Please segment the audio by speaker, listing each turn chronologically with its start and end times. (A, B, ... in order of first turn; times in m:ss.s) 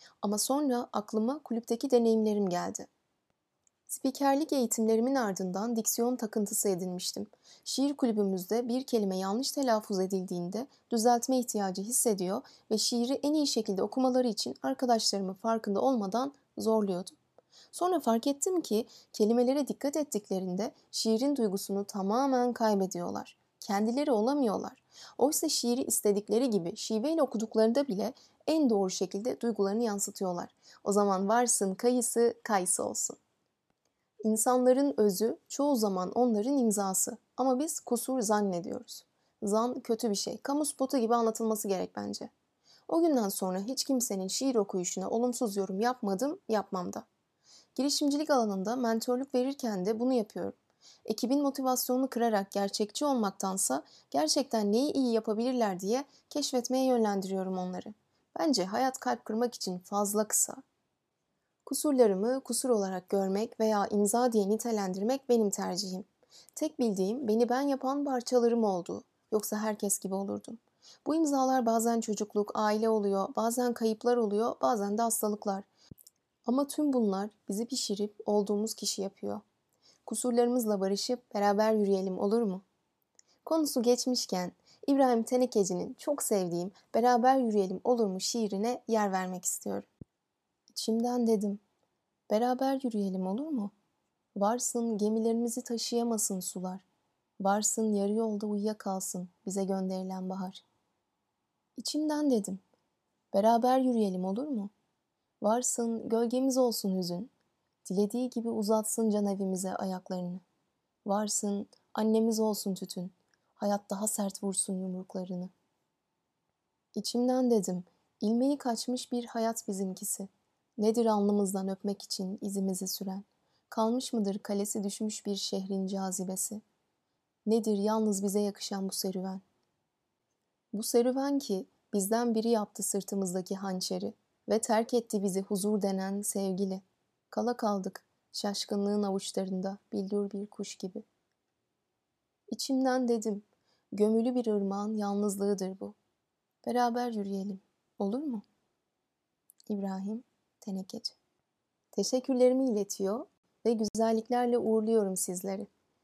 0:00.2-0:02.9 A
0:03.9-0:17.2 A
0:17.7-0:33.2 A
0:34.2-0:42.3 A
0:42.9-0:47.1 A
0:47.8-1:00.6 A
1:01.6-1:15.7 A
1:16.4-1:19.4 A
1:20.1-1:22.6 A
1:23.4-1:29.9 A
1:30.7-1:31.6 A
1:32.3-1:33.7 A
1:34.4-1:36.8 A
1:37.4-1:40.6 A
1:41.8-1:42.6 A
1:43.3-1:44.7 A
1:45.4-1:47.3 A
1:47.8-1:50.4 A
1:51.0-1:55.5 A
1:56.9-2:06.6 A
2:07.4-2:09.4 A
2:10.7-2:21.0 A
2:22.5-2:26.0 A
2:26.6-2:28.4 A
2:29.7-2:31.1 A
2:31.9-2:35.7 A